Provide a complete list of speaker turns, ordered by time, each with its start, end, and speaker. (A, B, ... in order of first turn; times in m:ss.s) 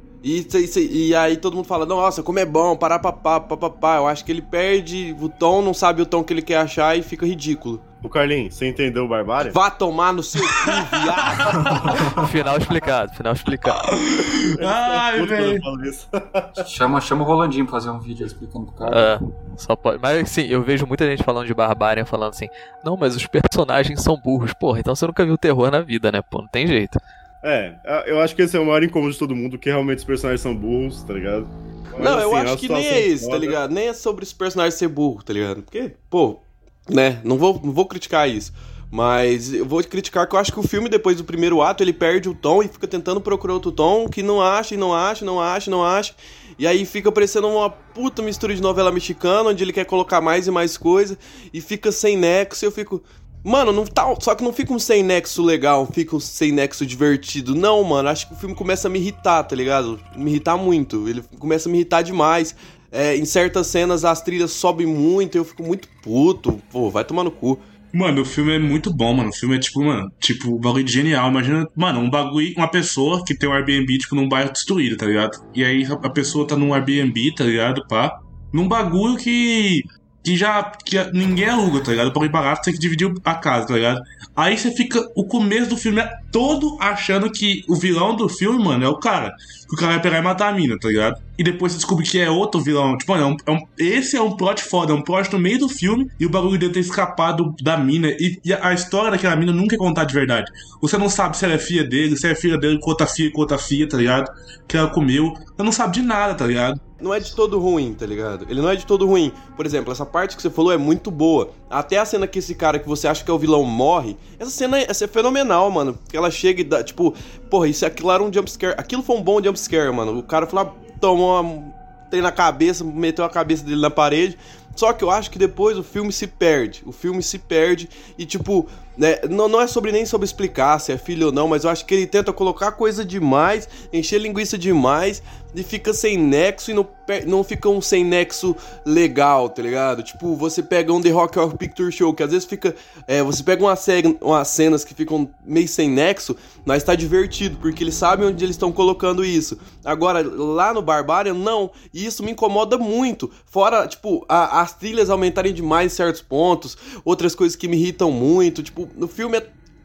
0:00.2-0:07.8 A
0:08.0-0:09.6 B
0:09.4-0:11.8 A
0:12.1-0:13.8 C
0:13.9-0:15.6 D
0:14.6-0:16.7 B
0:16.6-0:19.1 E
0:18.9-0:27.0 C
0:27.4-0:33.6 B
0:32.0-1:07.6 A
1:07.9-1:46.8 D
1:47.0-2:39.5 A